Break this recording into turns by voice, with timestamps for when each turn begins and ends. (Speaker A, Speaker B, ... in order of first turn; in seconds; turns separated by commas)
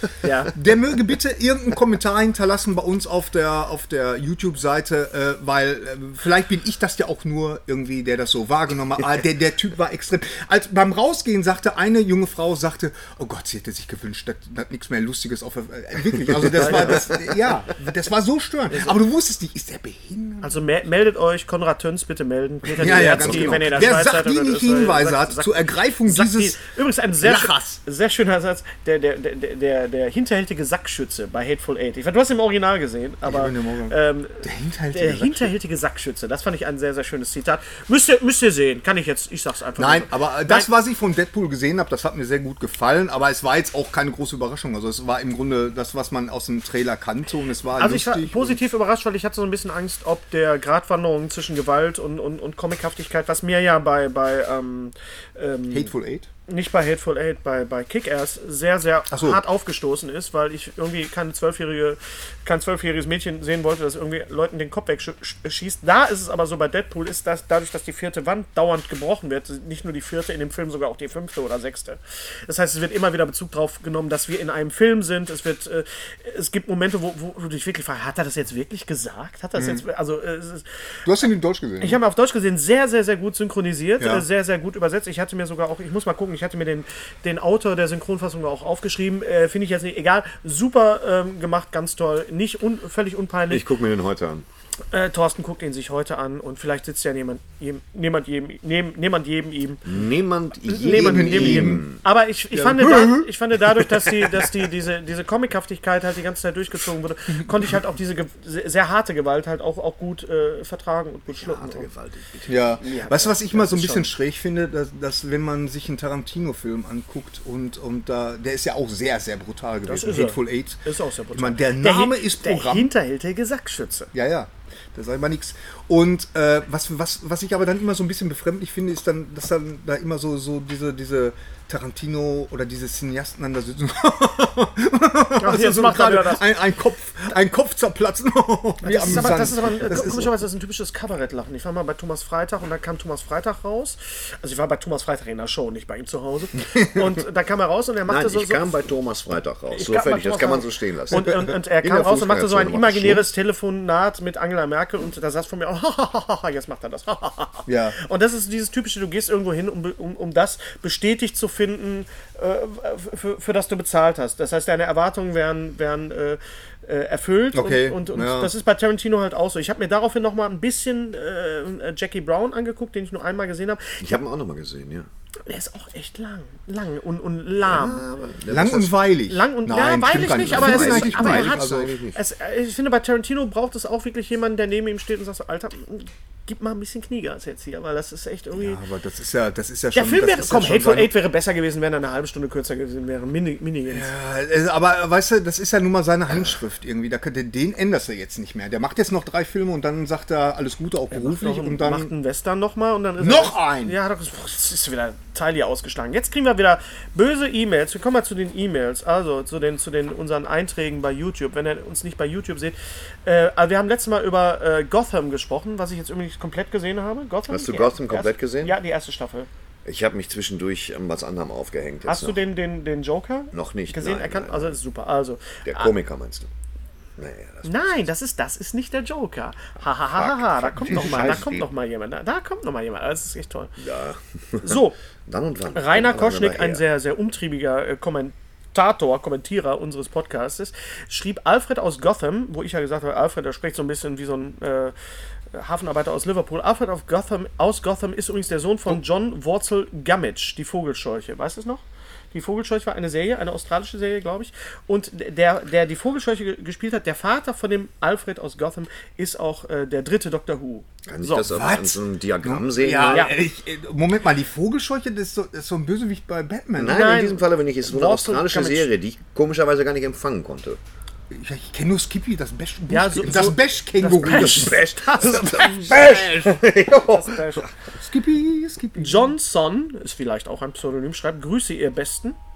Speaker A: 0.2-0.5, Speaker B: 0.5-20.6, Speaker A: 16.5-17.2, Speaker C: 16.6-17.2, Speaker A: 20.4-40.7, Speaker B: 22.8-26.6, Speaker C: 22.8-23.8, Speaker B: 27.2-27.8, Speaker B: 33.2-35.5, Speaker B: 39.8-48.6, Speaker A: 47.8-55.9, Speaker B: 55.7-56.3, Speaker A: 56.5-80.7, Speaker B: 59.1-59.4, Speaker B: 79.5-79.8, Speaker B: 81.0-82.0, Speaker A: 81.8-93.6, Speaker B: 84.0-84.2, Speaker C: 93.5-94.5, Speaker A: 94.9-99.8, Speaker C: 99.8-102.0, Speaker A: 100.7-111.9, Speaker B: 100.8-101.8, Speaker B: 102.5-103.8, Speaker C: 111.3-112.8, Speaker B: 112.5-122.9, Speaker A: 112.8-114.1, Speaker A: 119.8-124.1, Speaker B: 124.1-140.3, Speaker A: 135.4-136.5, Speaker A: 138.8-148.7, Speaker C: 148.1-153.2, Speaker A: 149.7-174.0, Speaker B: 151.1-151.5, Speaker B: 157.7-158.0, Speaker B: 167.5-168.5, Speaker C: 174.0-175.1, Speaker A: 175.4-178.1, Speaker C: 177.6-179.0, Speaker B: 178.5-181.9, Speaker A: 179.3-188.8, Speaker C: 180.1-182.2, Speaker B: 188.5-191.1, Speaker A: 189.9-194.1, Speaker B: 193.9-202.1, Speaker A: 201.1-219.5, Speaker B: 203.2-204.0, Speaker C: 217.5-218.8, Speaker C: 219.8-222.4, Speaker A: 222.0-225.9, Speaker C: 223.5-224.8, Speaker C: 225.6-226.5, Speaker C: 227.2-228.0, Speaker A: 227.6-233.7, Speaker C: 230.1-231.7, Speaker C: 233.8-236.8, Speaker A: 234.6-235.0, Speaker A: 235.7-244.9, Speaker A: 245.5-261.5, Speaker C: 261.1-263.3, Speaker B: 261.5-267.1, Speaker A: 263.1-263.3, Speaker C: 266.8-270.8, Speaker A: 266.9-268.9, Speaker B: 271.3-274.8, Speaker A: 272.9-276.1, Speaker C: 274.2-277.7, Speaker B: 275.9-276.4, Speaker A: 276.9-277.7, Speaker B: 277.9-279.3, Speaker A: 279.0-282.4